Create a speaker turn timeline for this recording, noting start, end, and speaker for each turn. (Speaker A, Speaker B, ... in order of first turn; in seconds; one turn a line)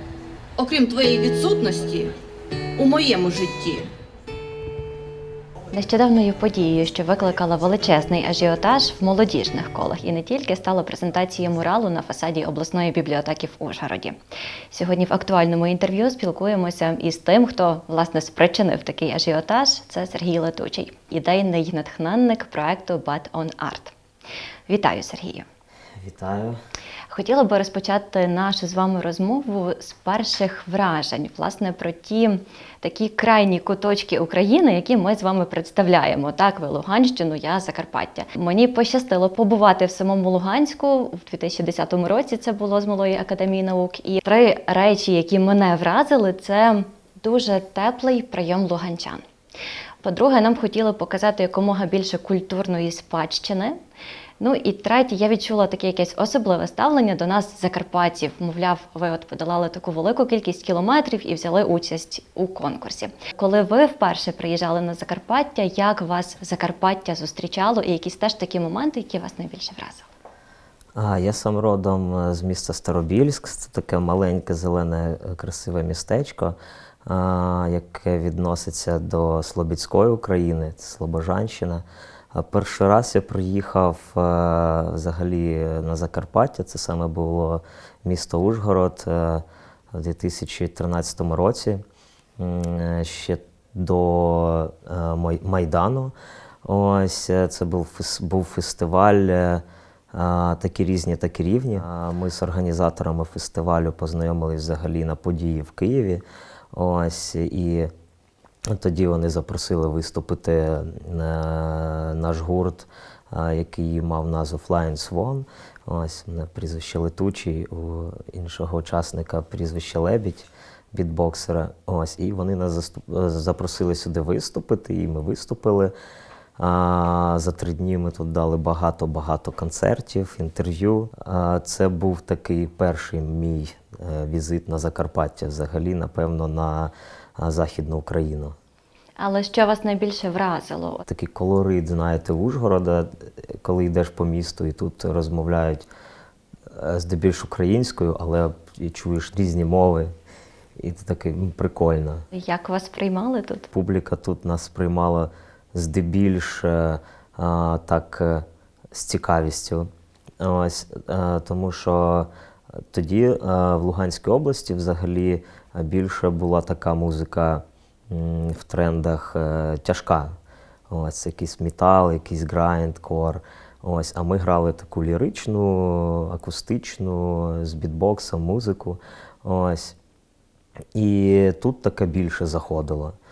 Speaker A: 0.6-2.1
Speaker A: 2.8-3.9
Speaker B: 5.7-14.2
Speaker B: 14.7-23.9
Speaker B: 24.7-25.5
Speaker C: 26.0-26.6
Speaker B: 27.1-49.2
Speaker B: 50.0-53.8
Speaker B: 54.4-70.1
Speaker C: 71.0-91.8
Speaker C: 92.4-107.9
Speaker C: 108.7-125.9
Speaker C: 126.6-138.6
Speaker B: 139.2-141.1
Speaker C: 141.1-145.9
Speaker C: 146.7-150.1
Speaker C: 150.8-152.3
Speaker B: 152.3-153.7
Speaker C: 153.7-162.3
Speaker C: 162.9-170.3
Speaker C: 170.9-180.0
Speaker C: 180.9-183.2